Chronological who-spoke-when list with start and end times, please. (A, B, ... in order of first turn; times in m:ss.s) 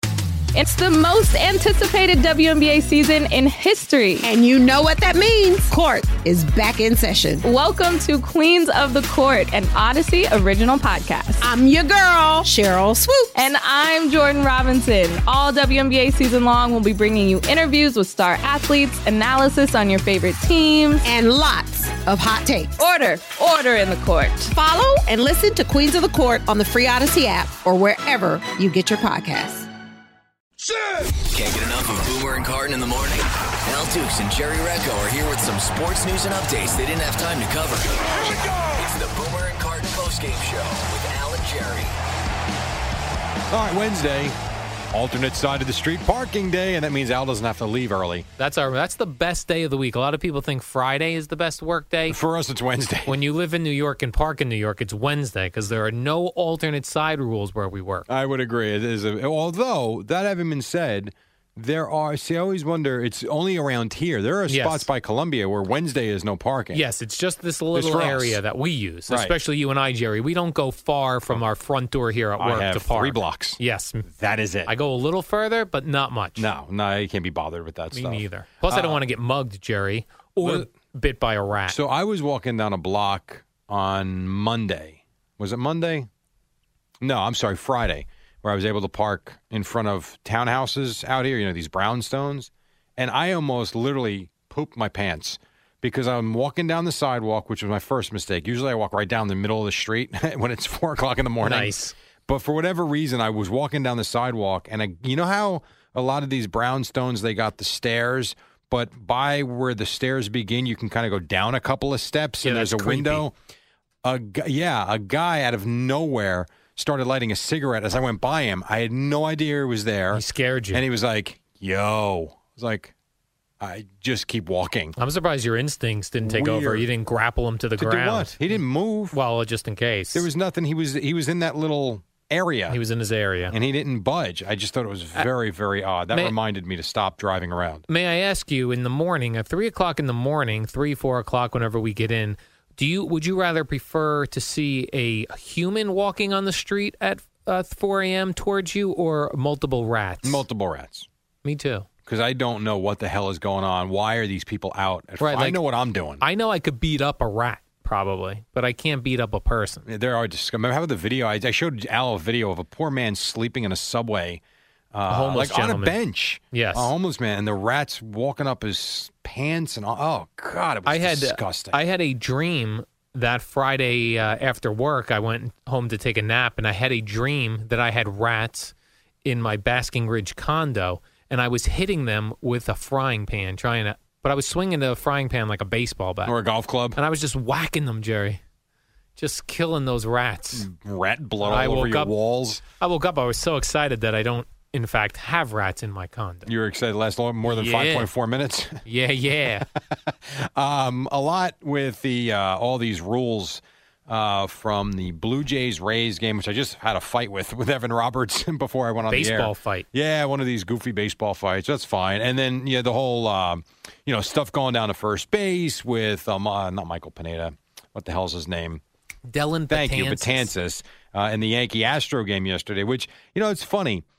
0:00.5-0:04.3 A
0:04.2-0:07.4 B
0:07.4-0:11.5 A
0:11.4-0:13.5 B
0:13.4-0:21.1 A
0:21.0-0:22.8 B
0:22.8-0:24.5 A
0:24.5-0:29.7 B
0:31.3-0:41.9 C
0:43.5-0:44.4 D
0:44.9-0:48.3 D
0:48.4-0:52.2 E
0:52.1-0:53.2 D
0:53.1-0:58.1 E
0:58.1-1:06.8 D
1:04.5-1:04.9 E
1:06.7-1:14.1 E
1:07.7-1:08.4 D
1:09.1-1:09.4 D
1:12.4-1:14.7 D
1:14.7-1:16.5 E
1:16.4-1:19.0 D
1:17.9-1:21.8 E
1:20.4-1:20.7 D
1:21.7-1:26.1 D
1:27.0-1:53.3 D
1:41.4-1:41.9 E
1:52.4-1:53.3 E
1:54.0-2:02.9 D
2:00.1-2:00.8 E
2:03.6-2:05.0 D
2:05.0-2:08.6 E
2:06.2-2:06.9 D
2:07.8-2:09.2 D
2:09.1-2:10.3 E
2:10.1-2:12.8 D
2:12.7-2:13.5 E
2:13.5-2:17.9 D
2:17.9-2:30.4 E
2:30.2-2:31.1 D
2:31.4-2:31.9 E
2:32.1-2:36.2 D
2:35.2-2:35.6 E
2:36.2-2:39.9 E
2:39.9-2:44.4 D
2:44.9-2:51.8 D
2:45.1-2:46.0 E
2:46.5-2:46.9 E
2:50.9-2:58.7 E
2:59.2-3:06.4 E
3:06.2-3:07.0 D
3:07.0-3:08.4 E
3:09.2-3:10.7 E
3:10.5-3:12.6 D
3:11.4-3:12.1 E
3:12.7-3:16.5 E
3:16.5-3:18.8 D
3:17.4-3:18.1 E
3:18.8-3:19.7 E
3:20.1-3:38.8 D
3:29.1-3:29.9 E
3:39.3-3:40.5 E
3:39.7-3:44.0 D